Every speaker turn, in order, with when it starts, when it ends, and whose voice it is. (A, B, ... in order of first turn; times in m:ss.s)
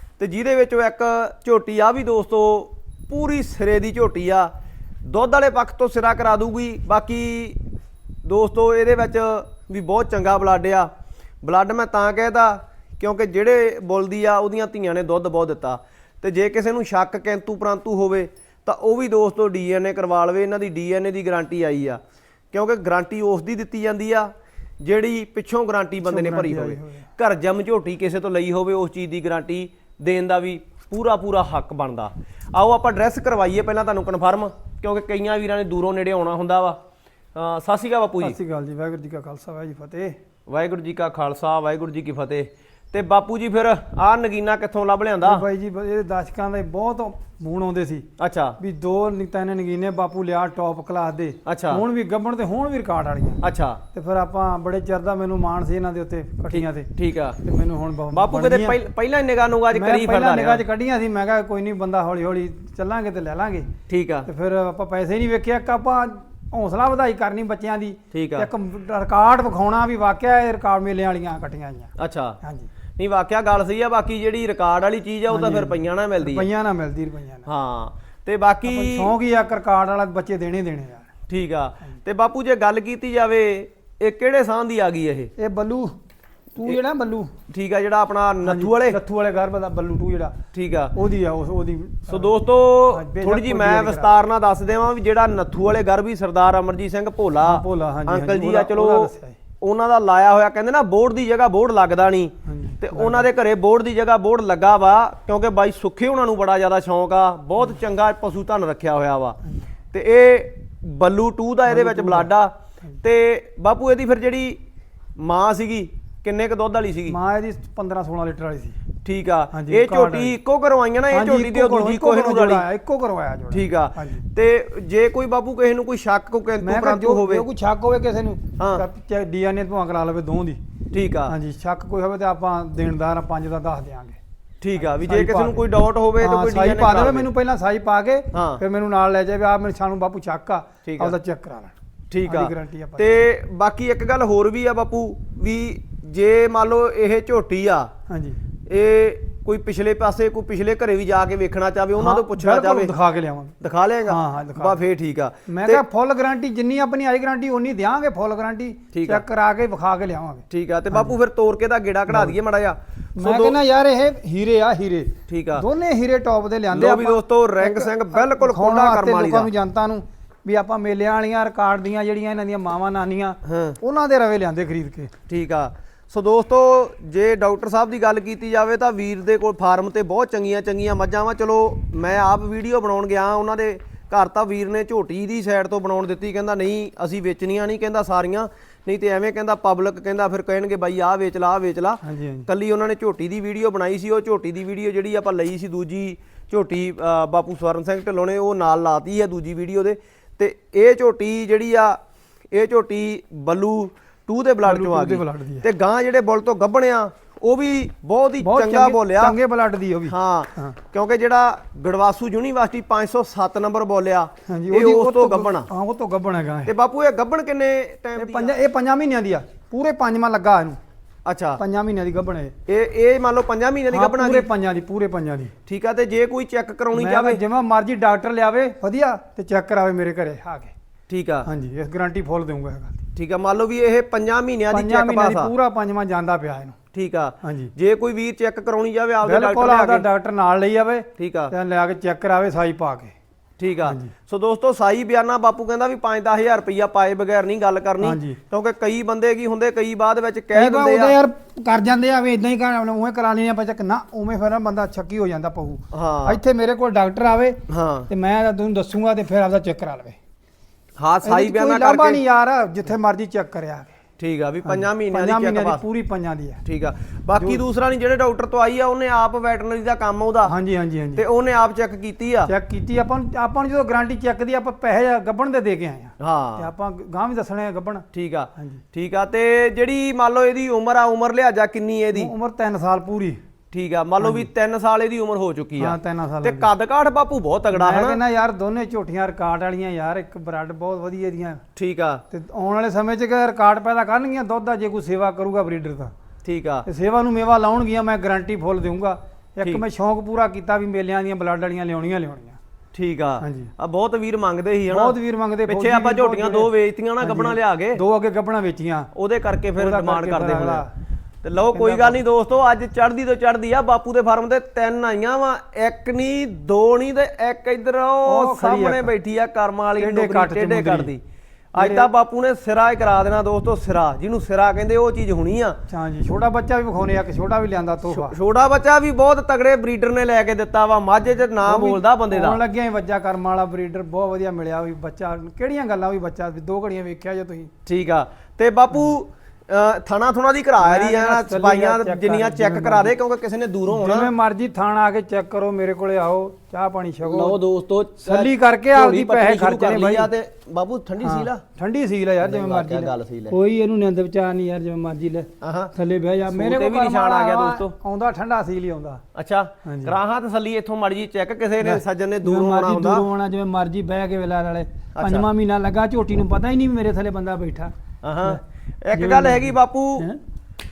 0:00.2-0:04.5 A
0:05.0-0:07.6 A
0:08.2-0:10.9 A
0:11.4-0:22.0 A
0:22.5-0:36.8 A
0:26.0-0:27.0 B
0:37.3-0:38.4 A
0:38.2-0:40.2 B
0:40.5-0:45.4 A
0:45.2-0:48.1 B
0:48.2-0:48.6 A
0:48.6-0:53.4 B
0:51.4-0:51.8 A
0:53.4-0:53.8 A
0:53.9-0:56.9 B
0:56.5-0:57.4 A
0:57.4-0:58.8 B
0:58.1-1:00.6 A
0:59.7-1:03.7 B
1:03.9-1:04.3 A
1:04.2-1:12.7 B
1:08.1-1:08.5 A
1:12.0-1:12.4 A
1:13.0-1:16.4 A
1:15.3-1:17.5 B
1:17.4-1:19.1 A
1:18.6-1:21.1 B
1:21.3-1:25.3 A
1:25.4-1:26.0 B
1:26.5-1:27.3 B
1:27.5-1:29.0 A
1:28.4-1:30.4 B
1:30.5-1:30.9 A
1:30.9-1:32.4 B
1:32.1-1:49.4 A
1:32.9-1:34.1 B
1:37.4-1:39.4 B
1:42.4-1:43.3 B
1:49.9-1:54.6 A
1:51.6-1:52.3 B
1:55.2-1:57.2 A
1:57.1-1:58.8 B
1:59.0-2:02.6 A
1:59.5-2:00.4 B
2:01.1-2:04.2 B
2:03.5-2:07.4 A
2:06.6-2:10.6 B
2:08.6-2:08.8 A
2:10.9-2:11.3 A
2:11.3-2:14.2 B
2:14.6-2:17.3 A
2:14.9-2:15.7 B
2:16.2-2:21.7 B
2:18.3-2:18.6 A
2:20.8-2:21.1 A
2:22.1-2:27.9 A
2:22.2-2:23.1 B
2:28.1-2:28.4 B
2:28.6-2:32.9 A
2:32.0-2:33.6 B
2:33.6-2:35.8 A
2:34.1-2:34.8 B
2:35.5-2:41.2 B
2:38.9-2:39.2 A
2:40.5-2:43.6 A
2:42.1-2:42.4 B
2:43.2-2:55.1 B
2:45.3-2:45.6 A
2:46.7-2:49.5 A
2:53.4-2:53.8 A
2:55.3-3:22.0 A
3:12.0-3:12.5 B
3:22.5-3:29.4 A
3:24.6-3:25.7 B
3:28.4-3:30.8 B
3:30.1-3:35.7 A
3:34.5-3:36.7 B
3:36.6-3:38.5 A
3:38.2-3:40.8 B
3:41.2-3:41.6 A
3:41.6-3:42.5 B
3:42.7-3:44.5 A
3:43.9-3:45.5 B
3:45.6-3:47.4 A
3:46.9-3:50.7 B
3:51.1-3:51.5 A
3:51.4-3:53.0 B
3:53.1-3:55.5 A
3:54.7-3:56.8 B
3:56.9-4:00.0 A
3:57.4-3:57.7 B
3:59.2-4:03.1 B
4:01.2-4:01.5 A
4:03.6-4:11.2 A
4:03.8-4:04.1 B
4:08.0-4:08.4 B
4:10.5-4:20.2 B
4:15.9-4:16.4 A
4:17.7-4:18.1 A
4:21.0-4:22.2 A
4:21.2-4:23.9 B
4:24.2-4:25.8 A
4:24.6-4:26.6 B
4:26.6-4:30.5 A
4:30.4-4:31.2 B
4:31.2-4:32.5 A
4:32.4-4:38.8 B
4:36.2-4:36.7 A
4:38.1-4:42.3 A
4:42.1-4:43.4 B
4:43.7-4:48.2 A
4:44.2-4:44.5 B
4:45.8-4:46.7 B
4:47.7-4:51.6 B
4:51.8-4:52.2 A
4:52.3-4:56.1 B
4:56.4-4:56.8 A
4:56.8-5:02.6 B
5:02.9-5:08.0 A
5:03.4-5:03.7 B
5:04.9-5:09.1 B
5:09.1-5:10.8 A
5:09.8-5:10.9 B
5:11.4-5:21.2 A
5:11.7-5:12.2 B
5:18.2-5:19.1 B
5:20.0-5:21.1 B
5:21.7-5:25.8 A
5:21.8-5:22.1 B
5:25.9-5:28.4 B
5:28.1-5:32.6 A
5:31.6-5:37.7 B
5:37.8-5:44.3 A
5:40.8-5:43.2 B
5:43.9-5:47.6 B
5:47.2-5:51.6 A
5:48.2-5:50.3 B
5:51.2-5:59.2 B
5:52.4-5:53.6 A
5:55.6-5:55.9 A
5:56.5-5:57.9 A
5:59.3-6:03.2 A
5:59.8-6:00.2 B
6:01.8-6:08.6 B
6:05.1-6:05.5 A
6:08.2-6:10.3 A
6:09.1-6:10.4 B